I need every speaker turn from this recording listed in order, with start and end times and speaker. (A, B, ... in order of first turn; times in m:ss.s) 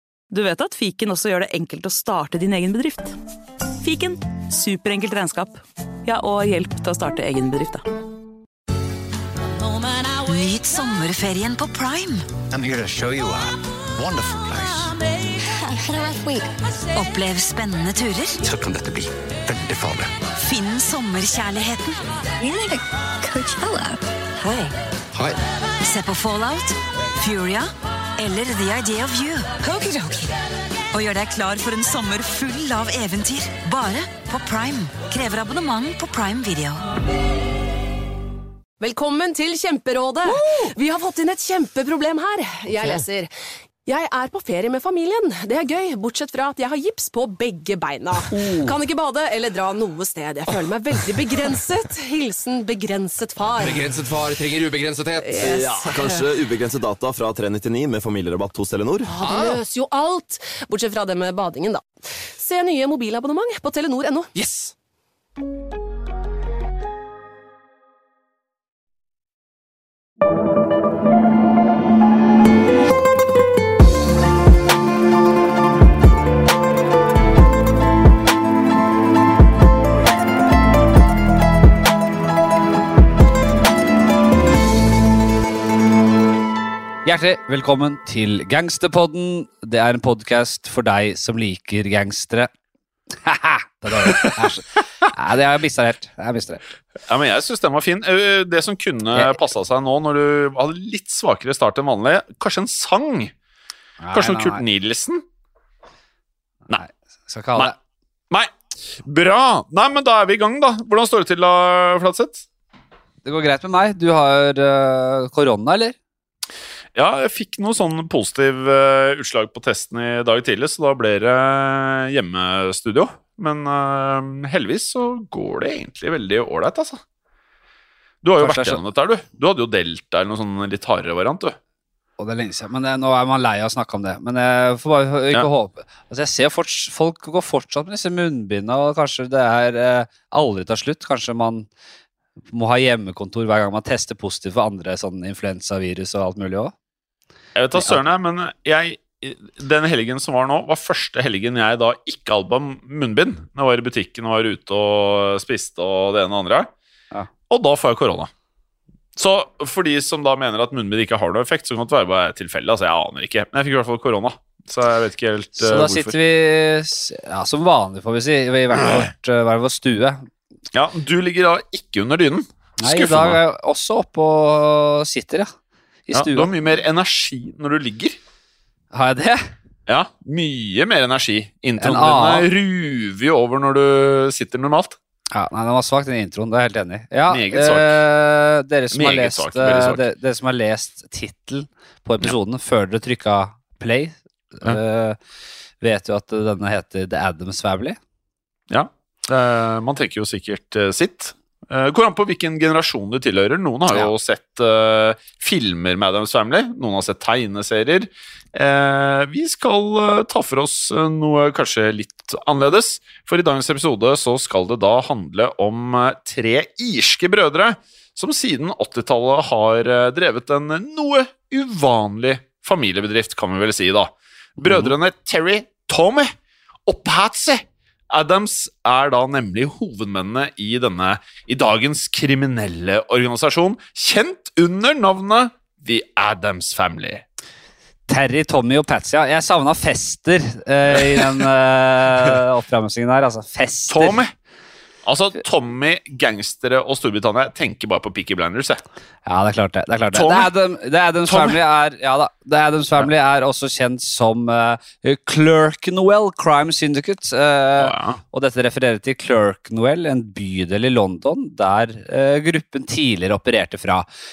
0:00.3-0:03.2 A
0:03.8-0:07.8 A
0:10.2-0:12.2 B
0:12.5-0:15.0 C
0:15.7-0:16.5 D
0:16.9-0:18.4 B
0:18.4-0:20.1 C
0:20.4-0:22.0 B
0:22.4-0:24.0 D
0:25.8-0:30.3 B
0:30.9-0:36.8 B
0:38.8-0:43.3 E
0:43.8-0:53.9 E
0:53.6-0:55.7 F
0:55.2-0:56.2 E
0:55.3-0:59.2 G
0:59.1-1:04.3 E
0:59.2-0:59.6 F
1:27.0-1:32.5 H
1:33.2-1:36.8 H
1:34.0-1:34.5 I
1:37.1-1:43.3 I
1:44.0-1:44.6 H
1:44.1-1:45.2 I
1:46.8-1:47.8 H
1:48.3-1:52.4 I
1:53.2-1:55.9 H
1:56.9-2:07.0 I
2:08.2-2:11.6 I
2:08.4-2:08.8 H
2:12.2-2:21.7 H
2:22.5-2:26.7 H
2:27.6-2:36.7 I
2:37.5-2:38.3 I
2:39.2-2:46.2 I
2:45.6-2:50.3 H
2:50.7-2:53.4 I
2:52.8-2:55.5 H
2:56.1-2:56.5 H
2:56.1-2:58.2 I
2:58.9-2:59.5 H
2:59.9-3:05.0 I
3:01.8-3:02.5 H
3:05.3-3:15.2 H
3:07.3-3:08.0 I
3:08.9-3:10.0 I
3:15.8-3:18.0 H
3:18.7-3:46.3 I
3:44.6-3:44.9 H
3:46.9-3:57.2 I
3:58.1-4:04.2 H
4:00.9-4:01.4 I
4:03.9-4:04.3 I
4:05.0-4:08.8 I
4:09.3-4:24.1 H
4:10.1-4:10.5 I
4:11.3-4:11.6 I
4:17.8-4:18.2 I